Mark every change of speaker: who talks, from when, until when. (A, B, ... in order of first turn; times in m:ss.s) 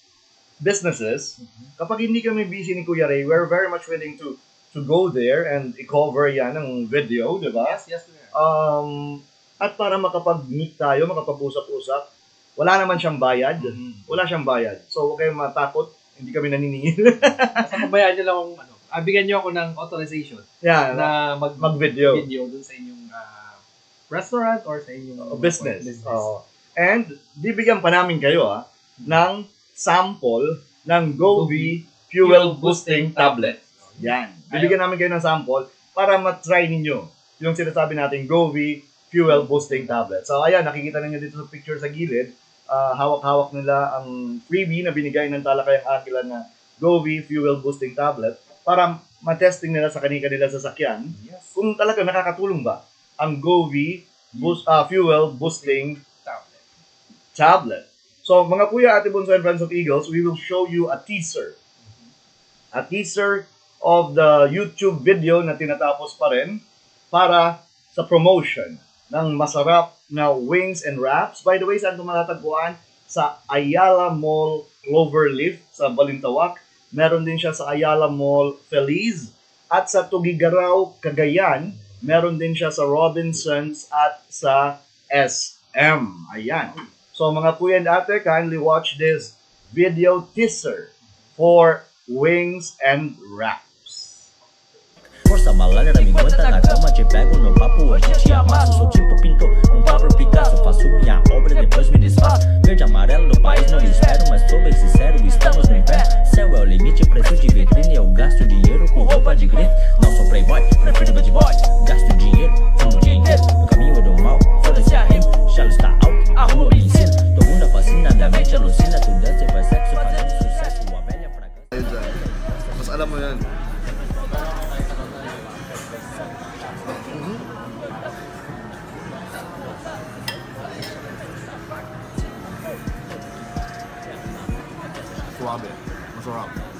0:00.6-0:07.8 A
0:01.4-0:01.7 B
0:07.6-0:08.3 B
0:08.3-0:12.0 A
0:12.6-0:17.8 A
0:13.6-0:14.1 B
0:17.3-0:26.3 B
0:20.6-0:22.3 A
0:25.2-0:56.0 A
0:31.3-0:34.8 B
0:39.3-0:39.9 B
0:51.1-0:51.6 B
0:54.3-0:56.6 B
0:57.3-1:01.6 A
1:01.8-1:02.1 B
1:02.7-1:34.3 A
1:35.2-2:02.3 C
2:01.7-2:03.5 A
2:07.1-2:07.4 A